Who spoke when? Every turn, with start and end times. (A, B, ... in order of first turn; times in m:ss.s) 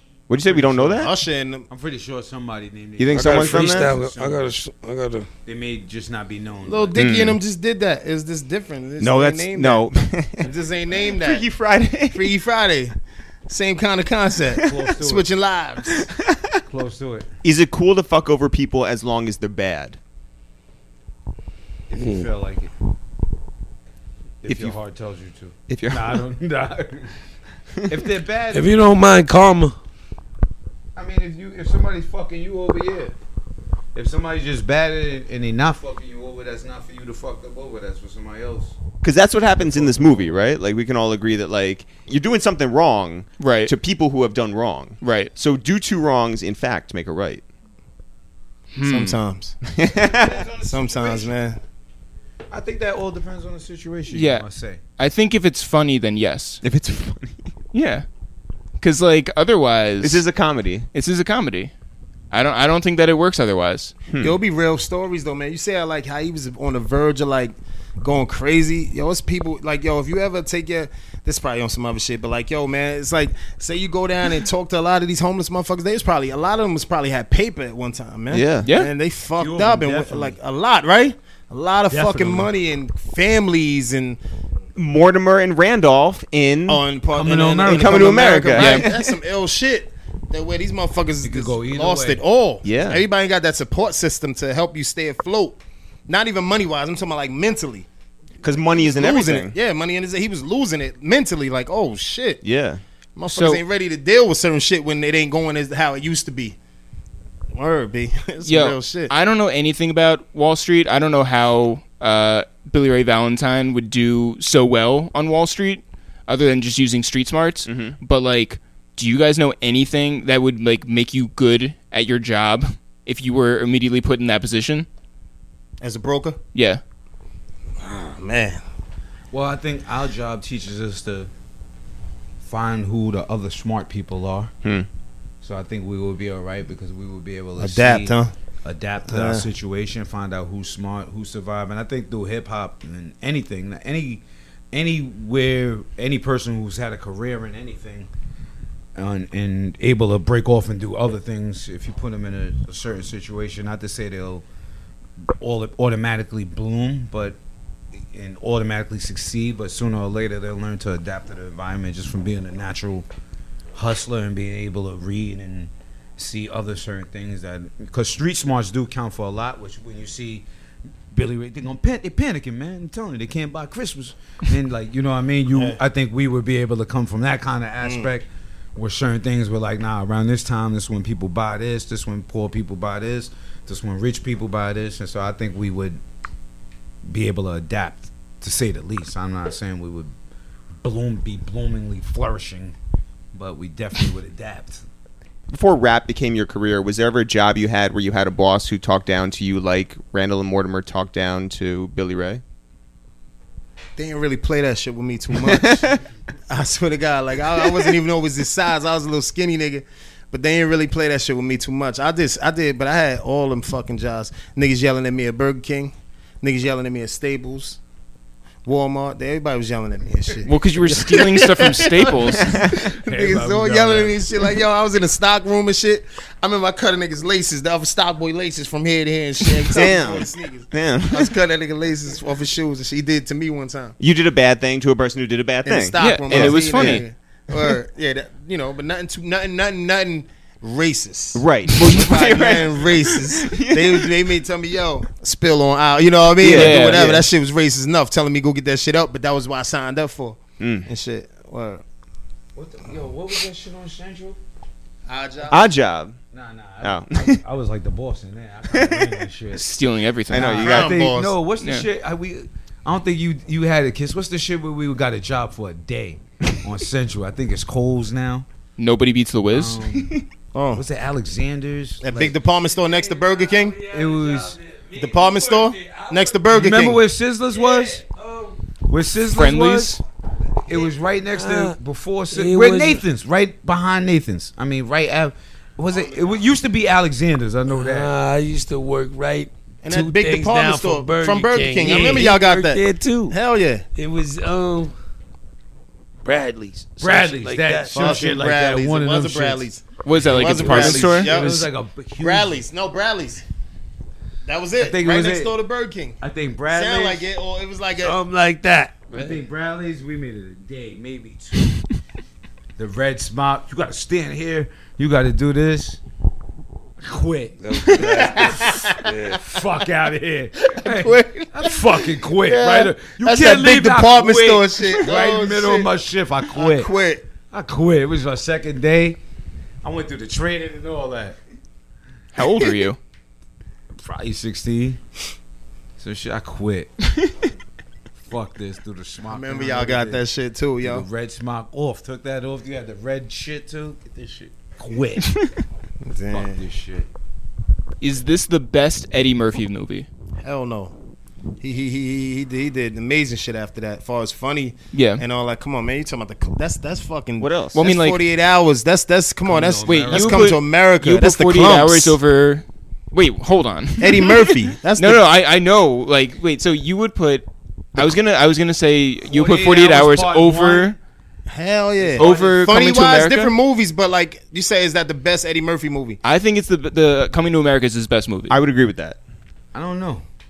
0:00.3-0:01.1 A
0:00.4-0:01.1 B
0:01.0-0:01.7 C
0:01.7-0:04.5 B
0:03.0-0:03.9 A
0:03.1-0:05.3 D
0:05.4-0:07.1 B
0:06.7-0:09.9 C
0:07.0-0:07.4 A
0:09.0-0:12.3 A
0:10.4-0:11.5 C
0:12.1-0:13.0 C
0:13.5-0:16.1 C
0:14.6-0:15.3 B
0:16.7-0:17.3 B
0:17.4-0:20.0 A
0:21.9-0:22.7 B
0:22.0-0:22.3 D
0:24.4-0:27.2 B
0:24.5-0:24.8 A
0:25.7-0:26.2 A
0:27.9-0:28.7 B
0:28.5-0:29.8 D
0:31.0-0:33.1 B
0:33.9-0:38.8 B
0:39.0-0:47.4 A
0:39.6-0:40.3 B
0:43.4-0:43.7 E
0:45.0-0:45.3 E
0:48.7-0:49.2 E
0:48.8-0:49.6 C
0:49.6-0:50.4 A
0:49.8-0:51.4 B
0:50.7-0:51.6 C
0:52.5-0:54.8 B
0:54.1-0:54.5 E
0:55.0-0:56.6 E
0:56.6-0:57.5 A
0:57.7-0:58.0 E
0:58.8-1:00.2 E
1:00.0-1:00.9 A
1:00.9-1:01.7 E
1:02.3-1:04.0 E
1:04.1-1:04.4 A
1:04.2-1:24.2 C
1:18.3-1:18.7 A
1:18.6-1:18.9 E
1:19.4-1:20.4 B
1:21.9-1:22.5 B
1:24.8-1:26.8 A
1:26.7-1:37.9 C
1:27.1-1:28.4 B
1:27.6-1:29.2 A
1:28.5-1:28.9 E
1:31.2-1:32.2 B
1:32.6-1:33.0 A
1:38.4-1:39.6 A
1:38.8-1:42.4 C
1:42.4-1:42.8 A
1:43.2-1:46.6 C
1:43.3-1:43.6 E
1:47.5-1:49.1 C
1:48.4-2:04.9 E
1:57.7-1:58.0 A
2:05.8-2:06.4 C
2:06.5-2:06.8 E
2:07.8-2:08.6 C
2:09.3-2:11.3 B
2:12.4-2:14.5 B
2:15.4-2:28.1 B
2:17.6-2:18.3 C
2:19.1-2:19.4 C
2:29.0-2:34.4 B
2:35.4-2:37.4 B
2:38.0-2:43.1 B
2:43.8-2:50.5 B
2:51.1-3:06.0 B
2:57.8-2:58.1 C
3:07.1-3:10.1 B
3:10.8-3:12.8 B
3:13.3-3:14.8 B
3:15.5-3:22.4 A
3:24.0-3:25.9 C
3:25.5-3:26.0 A
3:26.5-3:37.8 C
3:38.6-3:54.0 C
3:40.4-3:42.6 E
3:42.4-3:42.8 A
3:42.8-3:44.2 B
3:49.7-3:51.3 A
3:54.0-3:57.0 A
3:55.6-4:11.8 C
3:56.0-3:57.1 E
4:01.3-4:04.2 A
4:06.4-4:07.2 A
4:06.4-4:07.2 E
4:10.6-4:10.9 A
4:12.6-4:14.4 B
4:15.1-4:15.6 C
4:15.5-4:16.2 A
4:16.3-4:19.8 B
4:16.8-4:17.4 A
4:18.7-4:19.0 A
4:19.5-4:20.7 E
4:20.3-4:28.5 B
4:20.3-4:20.9 A
4:20.6-4:21.4 C
4:21.6-4:21.9 E
4:28.8-4:29.8 E
4:29.5-4:30.2 B
4:30.5-4:30.8 C
4:30.7-4:32.4 B
4:32.0-4:33.8 C
4:32.8-4:36.6 D
4:33.9-4:34.6 B
4:35.0-4:37.0 C
4:36.5-4:38.0 B
4:37.5-4:38.6 D
4:38.9-4:40.0 B
4:39.2-4:40.0 E
4:40.7-4:48.1 B
4:41.3-4:41.8 D
4:42.3-4:43.0 D
4:45.9-4:46.3 D
4:47.7-4:53.4 D
4:49.8-4:53.8 C
4:54.0-4:54.9 D
4:56.2-4:58.3 D
4:57.0-4:59.7 B
4:57.9-5:01.7 C
5:00.0-5:01.5 E
5:00.2-5:02.7 B
5:02.2-5:03.4 C
5:04.4-5:08.2 C
5:04.8-5:05.6 B
5:06.2-5:07.3 B
5:08.0-5:09.4 D
5:09.1-5:11.8 B
5:12.8-5:16.0 B
5:17.0-5:26.9 B
5:17.6-5:19.4 D
5:17.9-5:19.1 C
5:20.7-5:25.9 C
5:26.5-5:27.2 C
5:27.5-5:29.2 B
5:29.8-5:31.4 B
5:32.4-5:33.0 E
5:34.0-5:35.0 B
5:36.0-5:37.1 B
5:38.2-5:40.2 B
5:39.3-5:41.1 C
5:40.8-5:45.4 B
5:46.0-5:46.6 C
5:46.3-5:47.1 B
5:48.0-5:50.1 E
5:50.4-5:50.9 C
5:51.6-6:02.2 C
5:54.9-5:55.2 E
5:57.4-5:57.8 A
5:57.8-5:58.2 E
5:59.5-6:00.5 B
5:59.9-6:11.0 E
6:04.0-6:05.2 C
6:09.2-6:11.0 B
6:11.5-6:16.2 C
6:12.0-6:12.7 B
6:12.2-6:13.6 E
6:16.2-6:18.6 E
6:18.5-6:19.2 A
6:19.7-6:20.2 B